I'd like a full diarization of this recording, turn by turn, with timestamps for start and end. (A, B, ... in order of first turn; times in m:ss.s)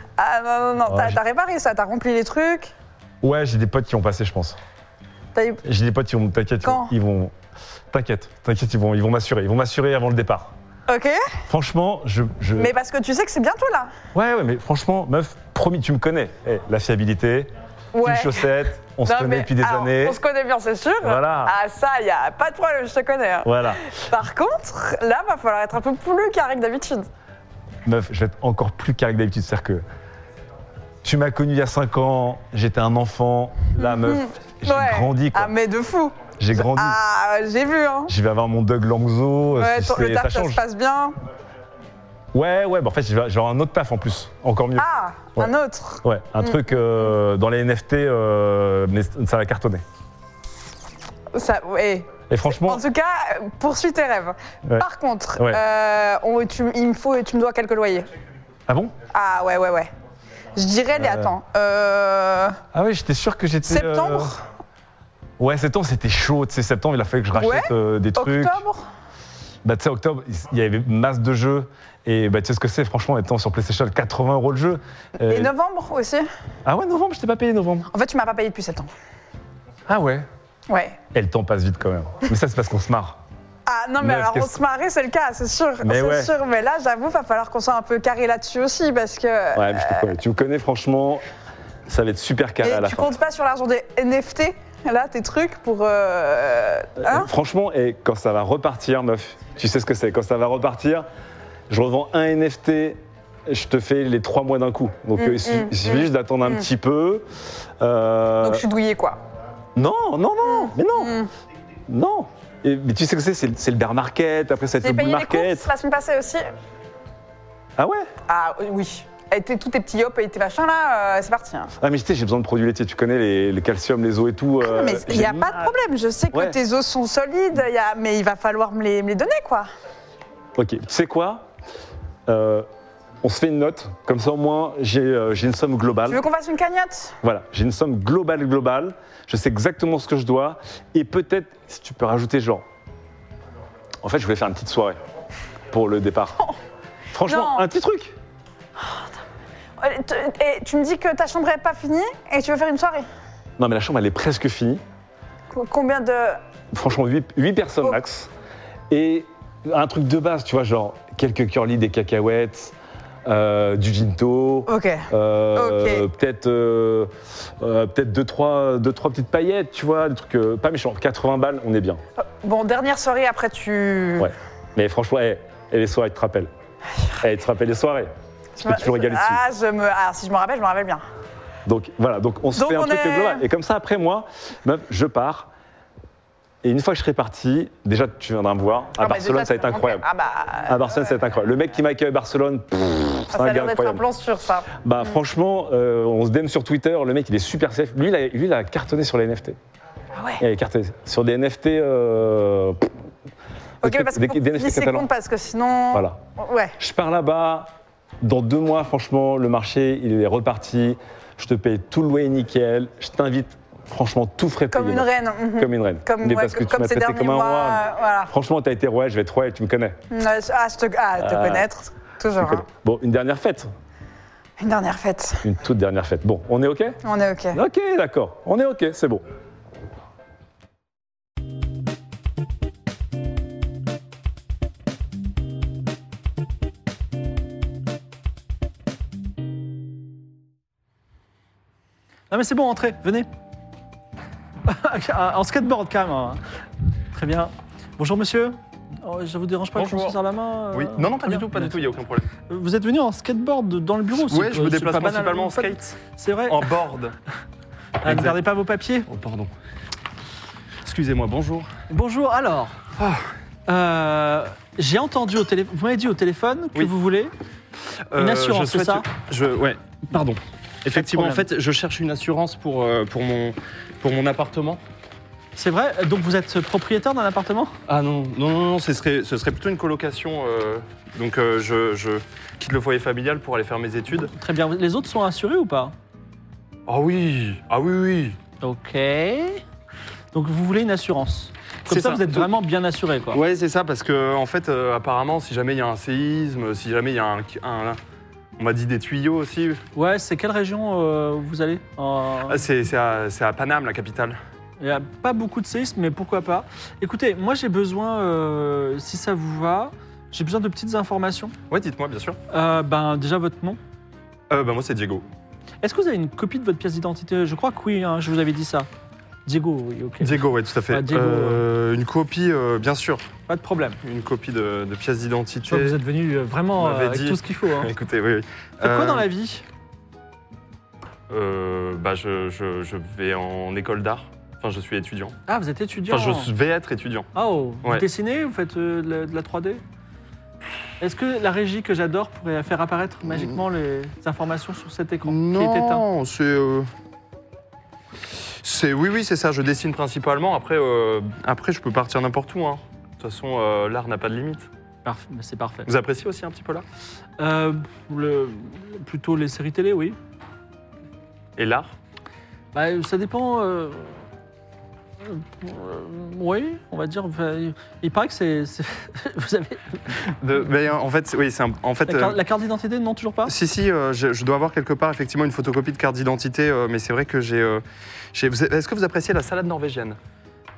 0:00.2-0:02.7 A
0:00.8-0:01.2 B
0:03.2-0:04.6 B
0:05.3-0:05.6 A
0:05.6-0:07.3 B
0:06.6-0:06.9 A
0:07.9-0:10.5 B
0:10.9-0:11.2 A
0:11.5-0:12.7 B
0:12.6-0:13.9 A
0:14.1-0:20.2 B
0:17.9-0:18.4 A
0:19.0-0:27.1 A
0:21.0-0:21.5 B
0:23.4-0:24.0 B
0:27.8-0:29.8 B
0:31.0-0:35.5 B
0:33.8-0:38.1 A
0:36.4-0:37.0 B
0:38.1-0:40.6 B
0:39.6-0:41.2 A
0:42.3-0:49.8 B
0:44.8-0:46.8 A
0:51.3-0:58.1 A
0:52.3-0:52.8 B
0:54.6-0:55.6 B
0:58.7-0:58.9 B
0:59.1-0:59.9 A
1:00.5-1:02.6 A
1:01.0-1:01.3 B
1:02.7-1:04.4 B
1:03.7-1:04.4 A
1:05.4-1:08.6 B
1:07.3-1:08.8 A
1:09.6-1:15.5 B
1:15.2-1:16.3 A
1:16.6-1:17.9 B
1:17.9-1:18.9 A
1:19.9-1:20.3 B
1:20.7-1:21.0 A
1:21.1-1:23.2 B
1:23.6-1:30.0 A
1:24.0-1:24.6 B
1:25.8-1:26.3 B
1:29.5-1:31.2 B
1:31.9-1:33.2 B
1:32.6-1:37.3 A
1:37.0-1:41.0 B
1:41.7-1:47.3 B
1:45.2-1:46.6 A
1:47.8-1:48.6 B
1:48.4-1:49.2 A
1:49.8-1:51.2 B
1:50.4-1:51.3 A
1:51.9-1:55.7 B
1:54.8-1:56.5 A
1:57.8-1:58.1 B
1:58.3-2:01.7 A
2:01.8-2:05.7 B
2:04.6-2:09.7 A
2:06.3-2:06.6 B
2:10.6-2:11.5 B
2:12.3-2:12.7 B
2:13.2-2:16.2 B
2:16.1-2:17.2 A
2:17.2-2:22.6 B
2:24.0-2:25.0 B
2:25.7-2:26.4 B
2:27.1-2:28.1 B
2:27.2-2:27.6 A
2:28.8-2:29.1 A
2:29.8-2:33.0 A
2:33.6-2:34.8 B
2:35.5-2:36.4 A
2:36.7-2:38.3 B
2:38.9-2:52.0 B
2:44.7-2:46.0 A
2:52.2-2:54.3 A
2:54.2-2:56.5 B
2:57.2-2:58.1 B
2:58.6-3:01.0 A
2:58.6-2:59.4 B
3:01.6-3:05.5 B
3:02.5-3:03.4 A
3:06.6-3:10.0 B
3:09.0-3:11.1 A
3:10.6-3:14.0 B
3:13.3-3:14.7 A
3:14.8-3:19.6 B
3:20.2-3:20.4 A
3:20.4-3:22.9 B
3:23.8-3:25.1 B
3:23.8-3:26.7 A
3:25.9-3:26.2 B
3:26.8-3:27.7 B
3:28.2-3:40.0 B
3:34.7-3:38.3 A
3:40.1-3:42.6 A
3:41.2-3:41.7 B
3:42.3-3:43.7 B
3:44.6-3:45.4 A
3:45.4-3:47.0 B
3:47.0-3:47.6 A
3:47.5-3:49.2 B
4:02.3-4:03.3 C
4:04.6-4:06.4 C
4:07.1-4:11.8 C
4:09.7-4:10.2 D
4:10.7-4:12.3 D
4:12.5-4:16.7 C
4:14.2-4:17.1 D
4:18.0-4:18.4 D
4:18.0-4:19.1 C
4:19.1-4:19.5 D
4:20.8-4:21.7 D
4:21.9-4:22.8 C
4:23.0-4:23.2 D
4:23.7-4:27.3 C
4:28.1-4:34.8 D
4:28.1-4:29.1 C
4:30.9-4:31.4 C
4:35.6-4:37.7 C
4:37.9-4:44.3 D
4:44.2-4:45.9 C
4:46.9-4:48.4 D
4:48.6-4:49.6 C
4:50.3-4:53.4 C
4:51.9-4:52.5 D
4:53.3-4:58.0 D
4:58.6-4:59.8 D
5:00.0-5:02.6 C
5:02.5-5:04.4 D
5:04.8-5:11.5 C
5:11.7-5:12.4 D
5:12.5-5:13.8 C
5:14.5-5:15.2 D
5:15.8-5:18.9 C
5:19.4-5:21.6 C
5:20.2-5:23.3 D
5:23.5-5:24.0 C
5:24.0-5:26.0 D
5:25.6-5:27.9 C
5:26.8-5:29.3 D
5:28.8-5:29.6 C
5:31.3-5:35.3 D
5:35.5-5:36.5 C
5:36.1-5:37.3 D
5:37.3-5:39.8 C
5:41.0-5:46.0 C
5:45.2-5:46.9 D
5:48.6-5:54.7 D
5:55.0-5:55.9 C
5:55.8-5:56.8 D
5:57.4-6:00.2 C
6:01.6-6:01.9 D
6:02.7-6:04.2 C
6:05.2-6:10.3 C
6:10.4-6:12.4 D
6:12.0-6:13.5 C
6:13.4-6:17.8 D
6:18.3-6:20.2 D